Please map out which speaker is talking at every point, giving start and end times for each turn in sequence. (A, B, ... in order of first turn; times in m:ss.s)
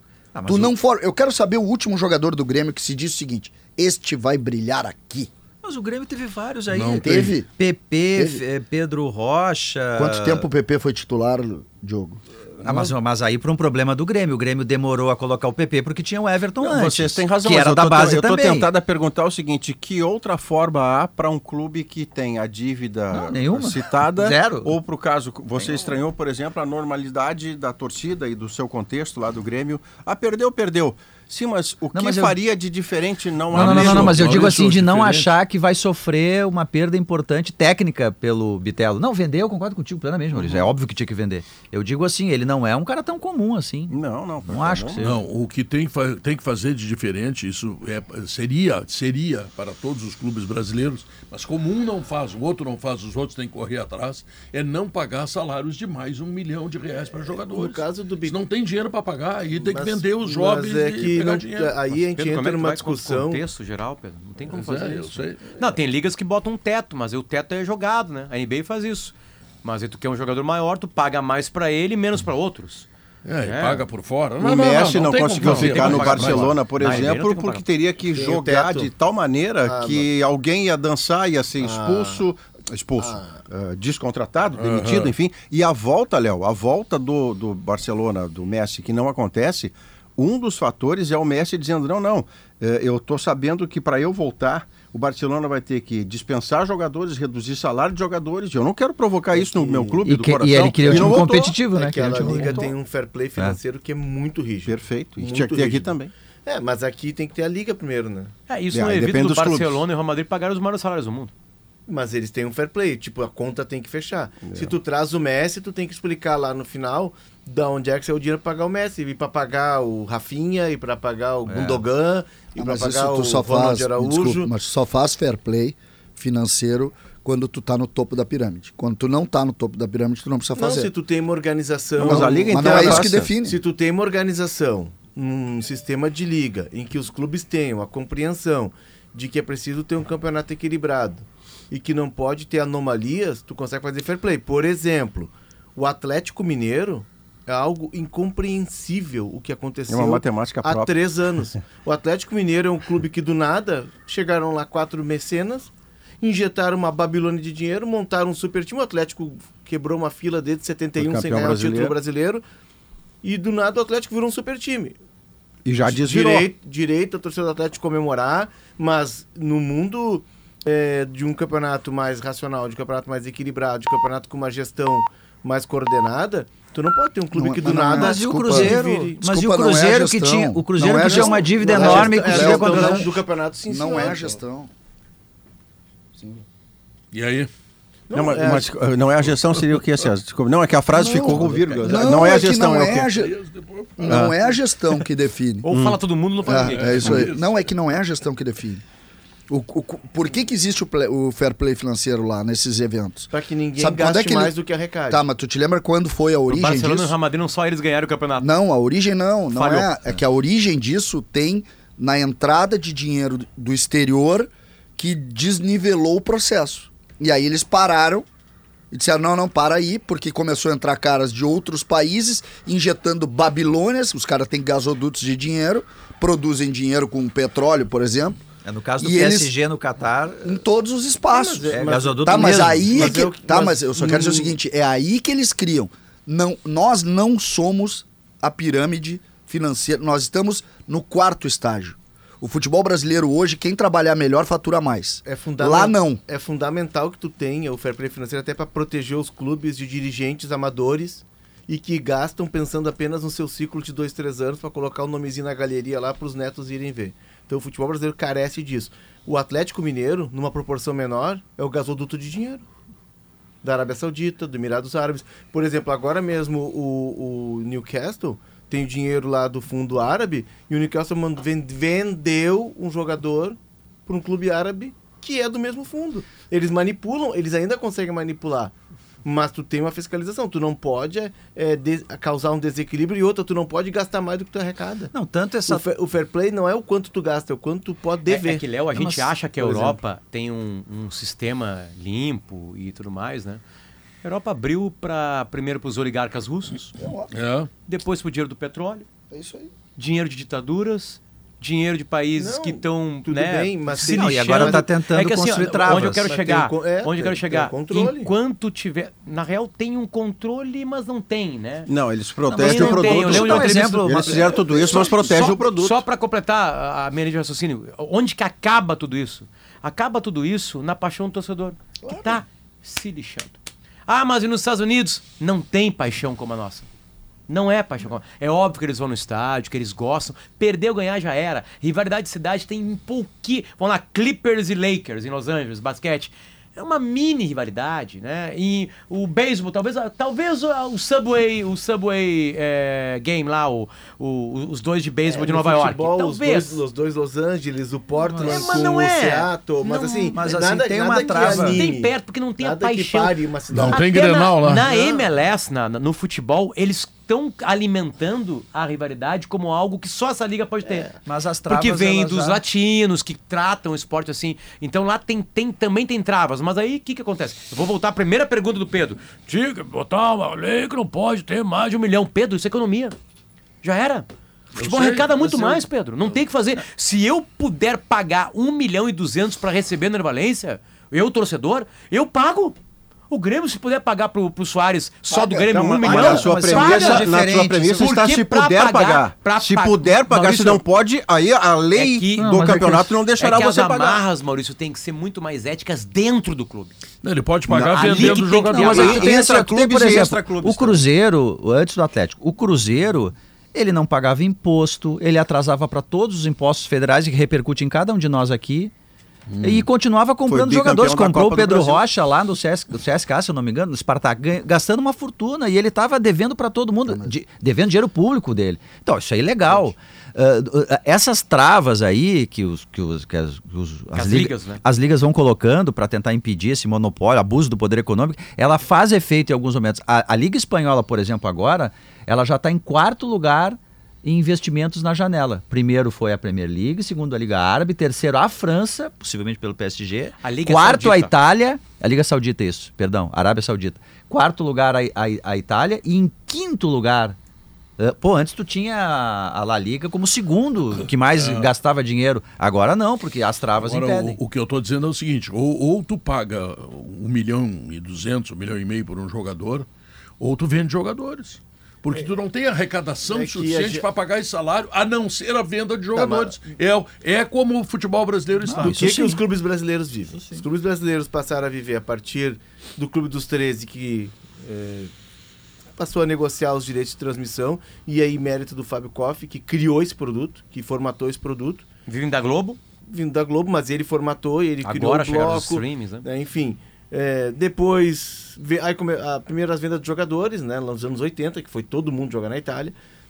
0:00.3-0:00.7 A
0:00.4-0:05.3 B
0:05.6-0:10.4 A
0:06.7-0:07.3 C
0:07.0-0:07.5 B
0:08.1-0:08.4 B
0:10.0-0:12.2 B
0:12.6-0:18.7 A
0:16.6-0:34.6 D
0:23.1-0:24.8 A
0:25.6-0:26.0 A
0:31.9-0:32.4 A
0:33.5-0:35.3 C
0:33.5-0:45.2 A
0:40.3-0:40.6 D
0:43.9-0:45.0 D
0:45.0-1:01.8 C
0:57.3-0:58.4 E
0:59.5-1:03.4 E
1:02.0-1:12.9 F
1:04.5-1:05.4 C
1:13.2-1:16.6 C
1:13.4-1:13.8 F
1:14.4-1:41.6 D
1:15.4-1:17.6 F
1:18.1-1:18.9 E
1:19.6-1:20.1 E
1:21.6-1:22.2 E
1:23.0-1:23.4 E
1:24.6-1:25.1 C
1:39.3-1:40.0 E
1:40.0-1:42.7 A
1:40.8-1:48.3 E
1:44.6-1:46.1 D
1:48.5-1:51.3 F
1:48.7-1:49.8 D
1:51.9-2:04.5 E
1:54.4-1:54.7 D
2:01.4-2:01.8 A
2:02.6-2:10.9 B
2:10.6-2:42.4 E
2:12.0-2:13.3 D
2:12.0-2:13.6 B
2:29.9-2:30.9 D
2:41.0-2:41.9 D
2:43.2-2:45.0 E
2:45.6-2:46.5 D
2:45.8-2:59.2 E
2:57.3-3:03.1 B
2:57.9-3:03.1 A
3:00.8-3:04.3 E
3:03.7-3:04.7 B
3:07.1-3:07.5 C
3:08.1-3:08.7 E
3:08.1-3:13.1 D
3:10.9-3:13.3 B
3:11.3-3:11.8 A
3:13.1-3:14.3 C
3:14.0-3:15.7 B
3:15.6-3:17.2 F
3:15.7-3:16.0 D
3:16.4-3:18.8 B
3:16.7-3:17.6 C
3:19.5-3:24.5 B
3:23.3-3:25.2 E
3:25.1-3:27.1 B
3:26.5-3:28.5 F
3:28.4-3:38.2 B
3:29.5-3:30.1 F
3:38.9-3:48.4 B
3:48.6-3:50.6 A
3:49.0-3:49.5 B
3:50.4-4:06.2 B
3:51.3-3:54.6 E
3:51.7-3:53.2 A
4:05.2-4:22.6 E
4:23.6-4:45.1 E
4:45.1-4:45.8 A
4:45.7-4:48.6 E
4:48.2-4:53.6 F
4:48.9-4:49.3 A
4:54.2-4:56.9 F
4:56.9-4:57.3 B
4:57.3-4:57.7 C
4:57.9-4:59.1 F
4:59.3-4:59.7 B
5:00.0-5:11.9 F
5:02.4-5:04.9 E
5:04.0-5:06.3 A
5:05.7-5:08.3 E
5:11.9-5:16.0 D
5:12.4-5:14.8 A
5:12.5-5:26.9 F
5:22.0-5:22.4 B
5:27.5-5:46.8 F
5:45.2-5:54.1 E
5:48.2-5:49.0 A
5:48.3-5:50.4 F
5:49.8-5:51.8 A
5:51.2-6:01.1 F
5:53.7-5:54.8 C
5:54.8-5:55.2 E
6:00.8-6:01.1 E
6:01.2-6:02.6 A
6:01.7-6:13.2 F
6:13.8-6:22.8 F
6:14.8-6:15.5 C
6:23.3-6:27.3 F
6:25.3-6:26.4 B
6:25.6-6:34.2 D
6:26.0-6:28.1 A
6:28.0-6:30.8 F
6:31.9-6:32.5 F
6:32.4-6:33.1 A
6:33.4-6:36.9 F
6:37.2-6:39.2 C
6:37.7-6:41.0 D
6:37.9-6:39.3 F
6:38.7-6:48.9 A
6:49.5-6:49.8 C
6:49.6-7:27.4 A
6:50.5-6:52.0 D
7:04.1-7:04.8 F
7:20.4-7:21.3 F
7:28.0-7:34.4 A
7:31.4-7:31.7 C
7:33.8-7:39.9 C
7:40.4-7:49.1 C
7:43.2-7:44.1 E
7:46.1-7:46.7 E
7:48.6-7:49.4 A
7:48.8-7:55.1 E
7:50.3-7:50.6 A
7:56.0-8:01.8 E
8:02.1-8:02.8 F
8:03.0-8:12.9 E
8:04.8-8:06.2 F